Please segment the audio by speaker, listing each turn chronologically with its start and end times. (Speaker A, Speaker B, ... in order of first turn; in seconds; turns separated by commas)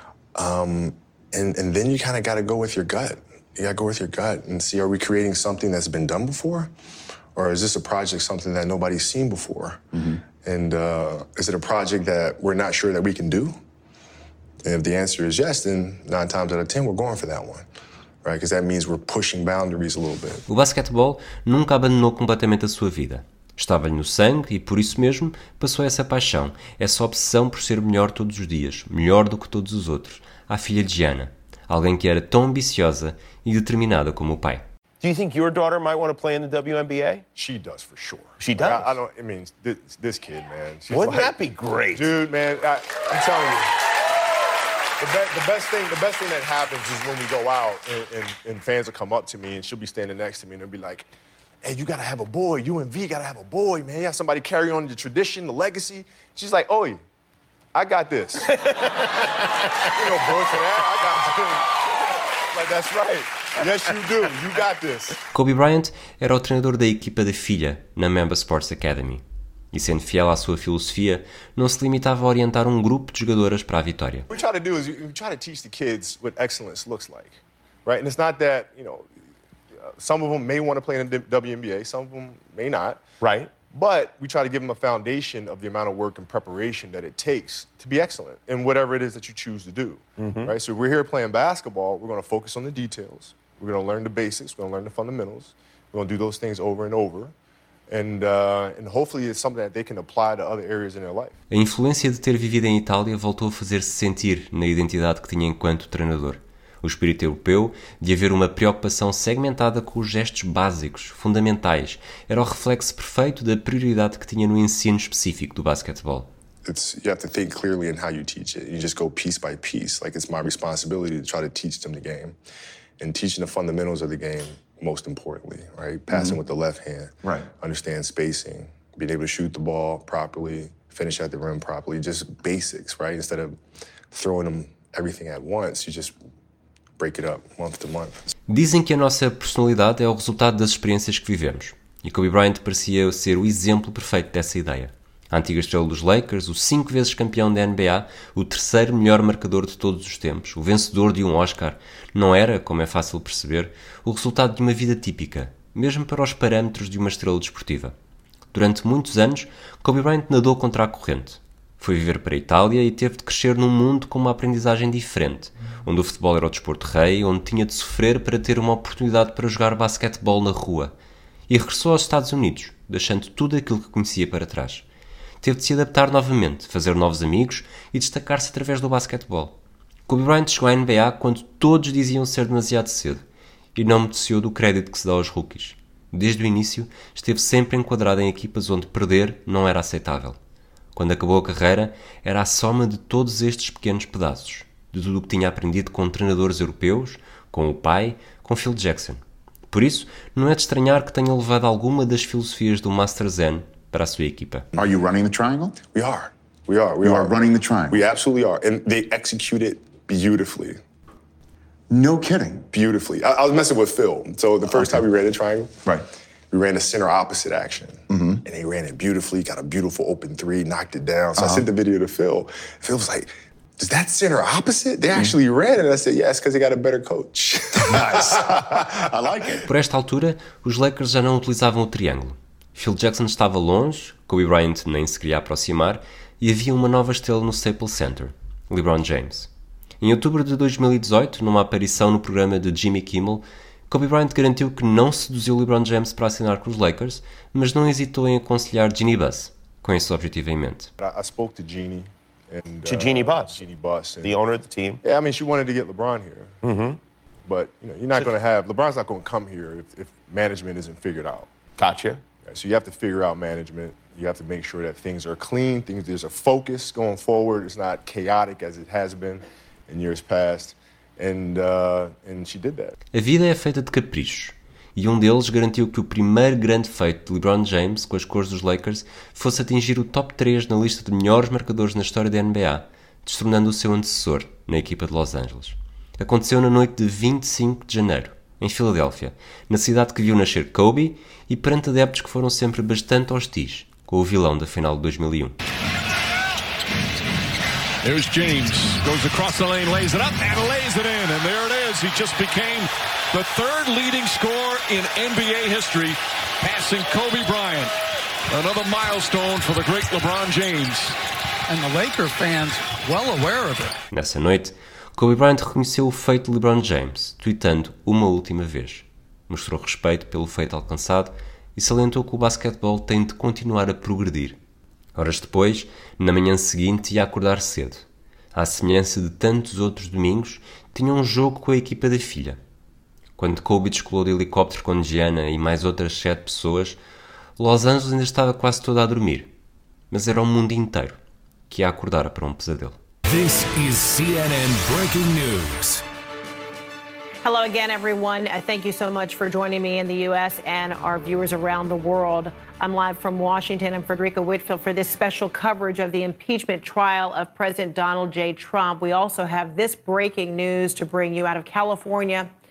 Speaker A: 0.3-6.7, Speaker A: 7.3-13.6, Speaker A: 14.6-17.6, Speaker A: 18.2-20.4, Speaker B: 20.5-34.6, Speaker C: 35.0-37.2, Speaker D: 37.3-41.3, Speaker C: 38.4-39.0, Speaker C: 40.9-42.1, Speaker D: 41.9-43.8, Speaker D: 45.0-51.1, Speaker D: 51.6-57.0, Speaker D: 57.7-58.5, Speaker D: 59.9-61.8, Speaker D: 62.5-65.2, Speaker B: 65.3-74.3, Speaker D: 74.3-79.1, Speaker D: 79.9-83.0, Speaker C: 83.2-83.6, Speaker D: 83.5-97.3, Speaker C: 90.2-90.5, Speaker D: 97.9-101.3, Speaker B: 101.5-116.3, Speaker A: 116.6-122.3, Speaker A: 123.0-133.6, Speaker E: 126.1-126.3, Speaker A: 134.1-136.1, Speaker A: 137.0-138.2, Speaker B: 138.5-157.9, Speaker B: 158.5-170.9, Speaker B: 171.5-174.8, Speaker B: 175.4-179.6, Speaker B: 180.1-183.2, Speaker B: 183.7-190.4, Speaker B: 190.9-204.7, Speaker E: 204.7-205.8, Speaker A: 205.9-210.8, Speaker E: 207.0-208.0, Speaker E: 211.9-212.7, Speaker A: 212.7-215.9, Speaker E: 214.7-215.0, Speaker A: 216.5-228.8, Speaker E: 218.1-218.4, Speaker E: 221.4-221.7, Speaker E: 227.8-229.6, Speaker B: 229.7-239.5, Speaker B: 240.0-250.9, Speaker D: 251.0-254.3, Speaker C: 252.8-253.6, Speaker C: 254.2-255.0, Speaker D: 255.0-256.6, Speaker C: 256.6-257.0, Speaker D: 257.5-261.5, Speaker C: 261.8-262.2, Speaker D: 262.4-272.9, Speaker B: 273.1-295.6, Speaker F: 298.0-307.9, Speaker F: 308.5-311.2, Speaker G: 311.7-314.0, Speaker B: 314.1-324.6, Speaker B: 325.1-332.6, Speaker B: 333.4-337.0, Speaker B: 337.6-339.5, Speaker B: 340.1-341.2, Speaker B: 341.7-343.0, Speaker H: 343.2-346.0, Speaker I: 347.4-362.5